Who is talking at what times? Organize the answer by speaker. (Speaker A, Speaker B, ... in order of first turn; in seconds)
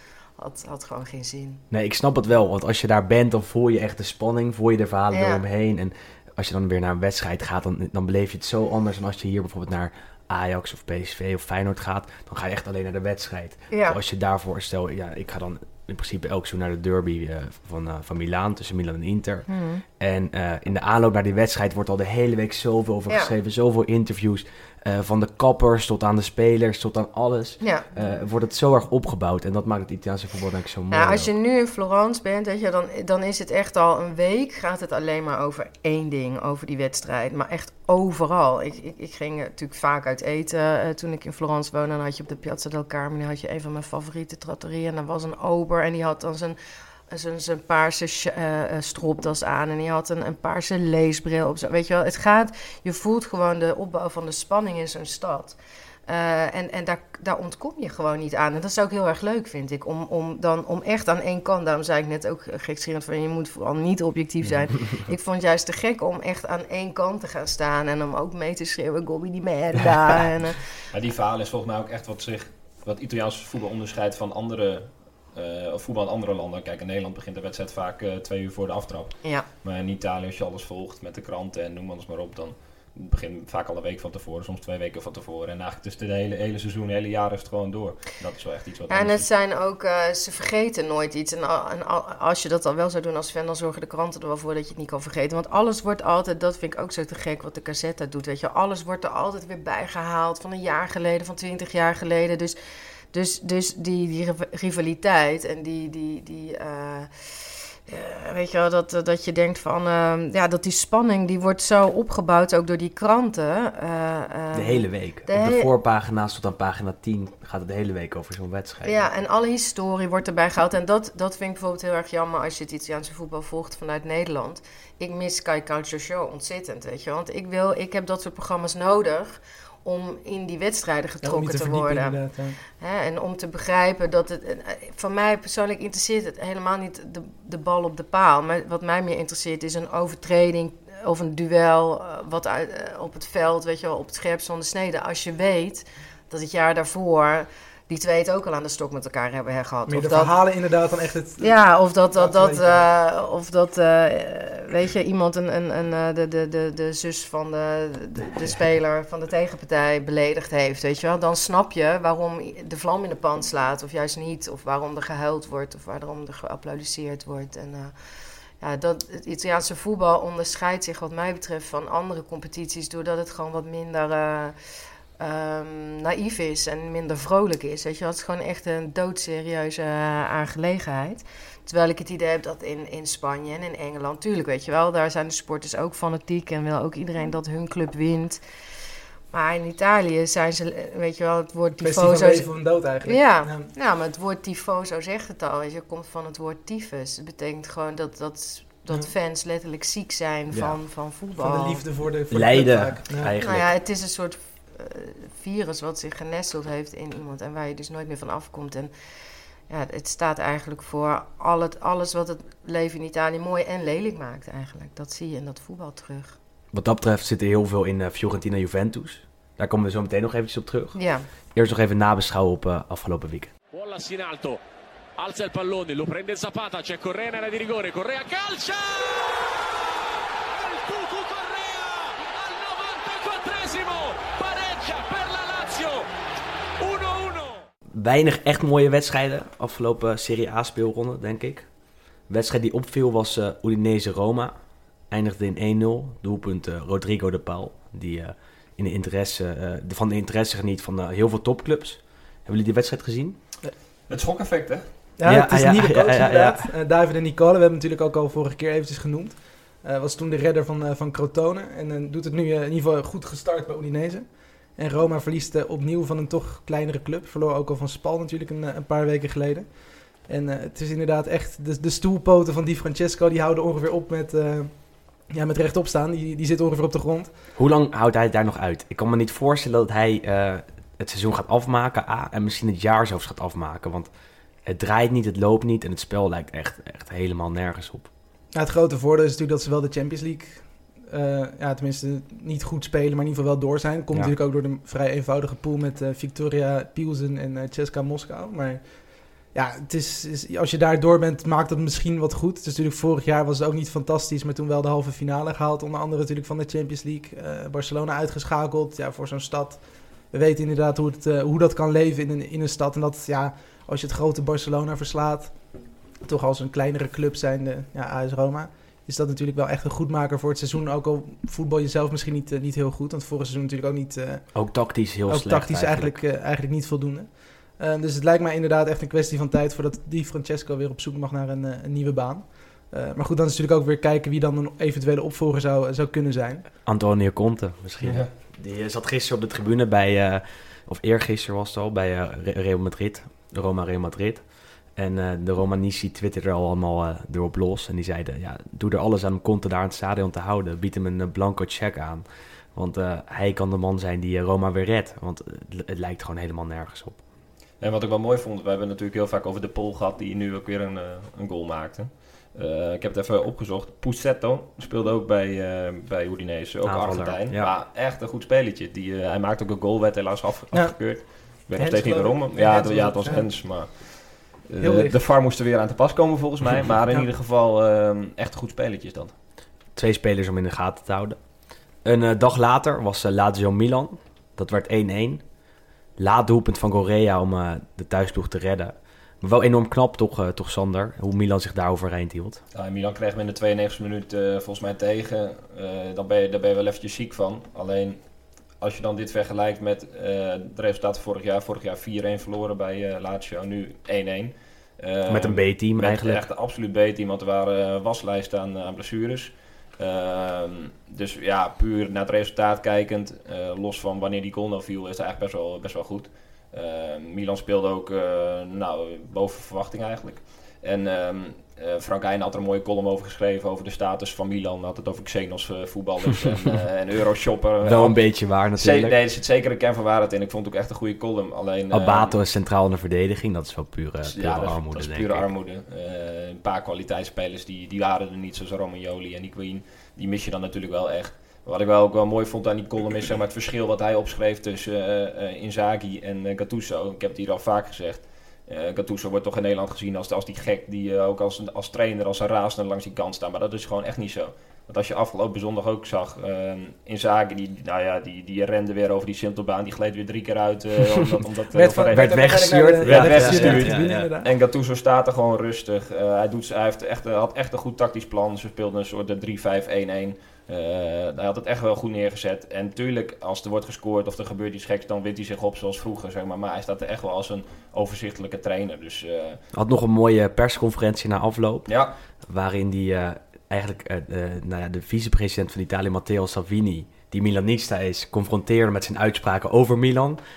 Speaker A: 0.4-1.6, 5.1-5.4, 13.7-14.0, 19.5-19.8, 27.6-28.2, 30.9-46.6, 47.1-55.6, 56.1-70.6, 88.9-102.6, 103.1-115.7, 118.8-150.3, 151.4-167.9, 168.6-174.6, 175.2-188.4, 189.3-201.8, 203.4-208.9, 209.7-216.4, 220.9-221.3
Speaker B: 1.7-19.5, 20.0-31.3, 114.5-119.1, 200.5-200.8, 202.3-203.7, 216.7-221.0, 221.5-223.5, 237.9-241.7, 242.3-244.6, 245.1-253.4, 255.2-256.7, 277.6-284.1, 284.6-288.1, 324.5-326.2, 336.9-357.2, 366.8-367.7, 379.9-381.4, 382.0-385.4, 386.2-392.6, 405.3-406.4, 427.8-429.2, 431.9-435.5, 462.1-464.3, 479.7-490.4
Speaker C: 70.9-89.3, 254.1-254.9, 338.0-338.3, 357.8-379.3, 392.7-432.4, 434.2-479.6, 481.9-482.2
Speaker D: 131.2-132.6, 149.9-151.6, 152.2-152.8, 191.8-193.7, 201.4-203.3, 255.2-277.4, 288.5-336.7, 370.7-373.7, 374.8-375.2, 461.8-464.5
Speaker E: 223.7-224.6, 225.2-229.9, 230.6-236.1, 236.8-237.6